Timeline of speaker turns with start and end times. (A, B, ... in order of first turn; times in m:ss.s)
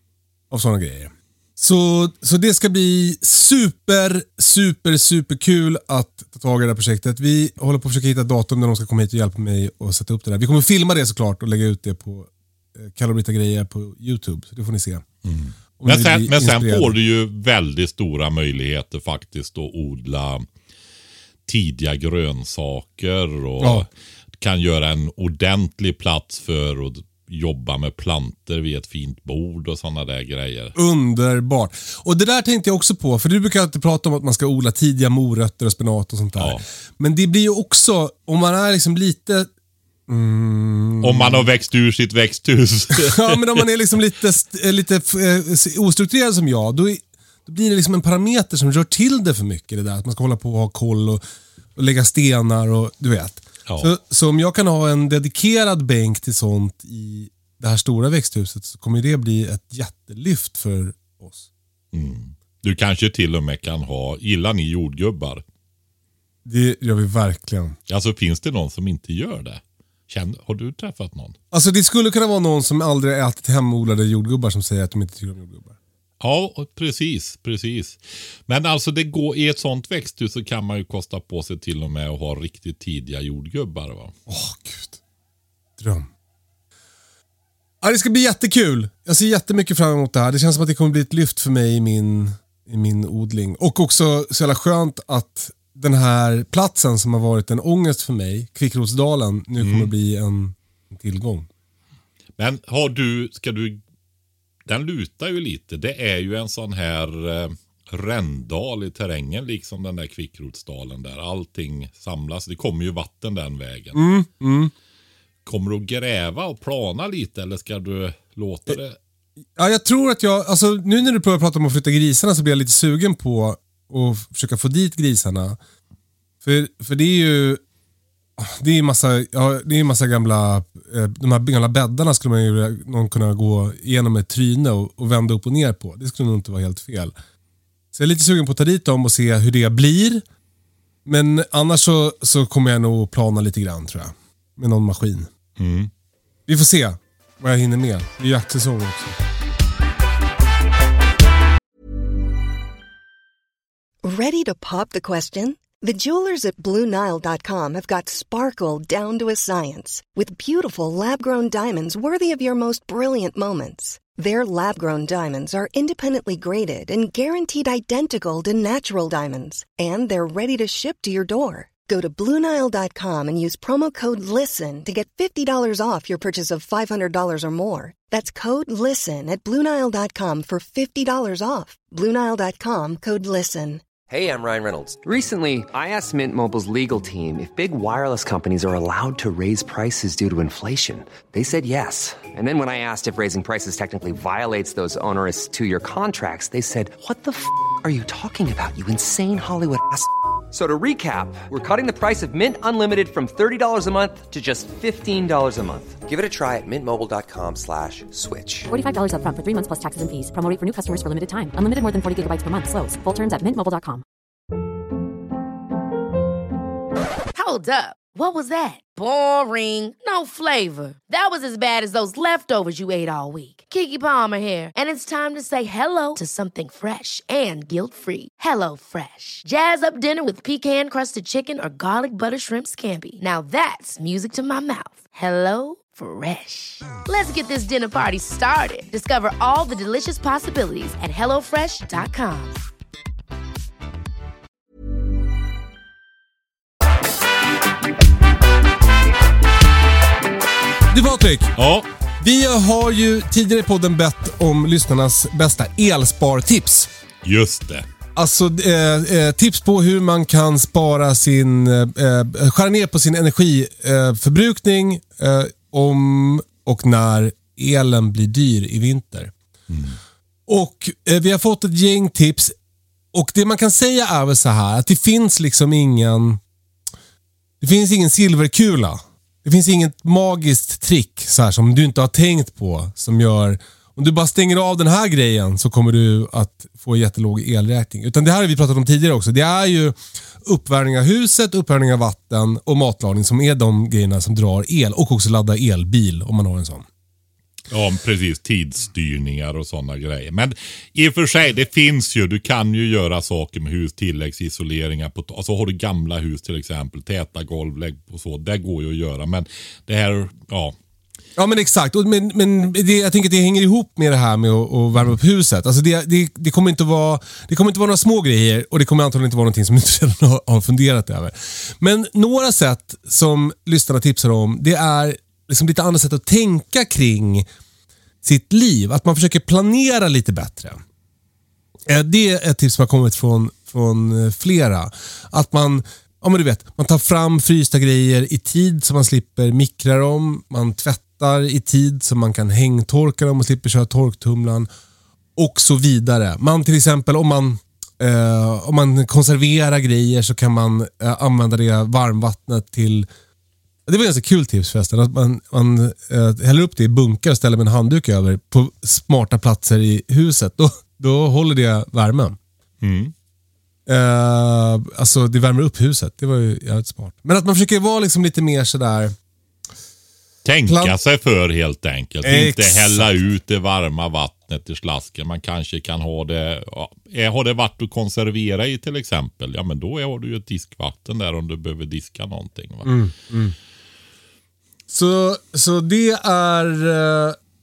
0:00.5-0:15.0 A
0:15.2-0:20.4 B
0:15.8-0:17.0 A
0:21.5-0:23.9 B
0:23.6-0:23.9 A
0:24.4-0:30.8 B
0:30.8-0:39.5 A
0:36.4-0:36.6 B
0:40.1-0:41.5 A
0:41.0-0:43.6 B
0:42.9-0:51.2 A
0:51.8-1:01.5 A
1:01.9-1:05.4 B
1:06.4-1:07.8 A
1:07.9-1:11.4 B
1:11.5-1:15.8 A
1:16.2-1:24.1 B
1:24.3-1:25.0 A
1:25.8-1:26.1 A
1:27.8-1:41.5 A
1:39.6-1:39.9 B
1:42.4-1:43.8 B
1:44.7-1:54.0 B
1:53.9-1:54.7 A
1:55.4-1:59.0 B
1:59.6-2:05.6 A
2:06.4-2:07.6 A
2:08.4-2:17.1 A
2:17.9-2:20.2 A
2:21.0-2:25.3 A
2:25.6-2:25.9 B
2:26.5-2:29.2 A
2:34.0-3:03.8 C
3:04.1-3:28.7 D
3:28.7-3:34.0 E
3:37.4-4:02.6 F
4:10.9-4:11.5 A
4:11.6-4:11.9 B
4:12.2-4:16.9 A
4:17.2-4:17.8 B
4:18.2-4:29.3 A
4:29.7-4:30.0 B
4:30.5-4:32.6 A
4:33.1-4:36.4 A
4:37.6-4:56.9 A
4:57.7-5:10.8 B
5:11.4-5:27.5 A
5:28.2-5:30.8 A
5:31.9-5:44.7 A
5:45.4-5:53.1 A
5:53.9-6:02.4 A
6:02.8-6:03.1 B
6:03.9-6:09.2 A
6:10.4-6:23.0 B
6:10.7-6:11.0 A
6:12.2-6:13.1 A
6:22.8-6:23.6 A
6:24.9-6:27.4 A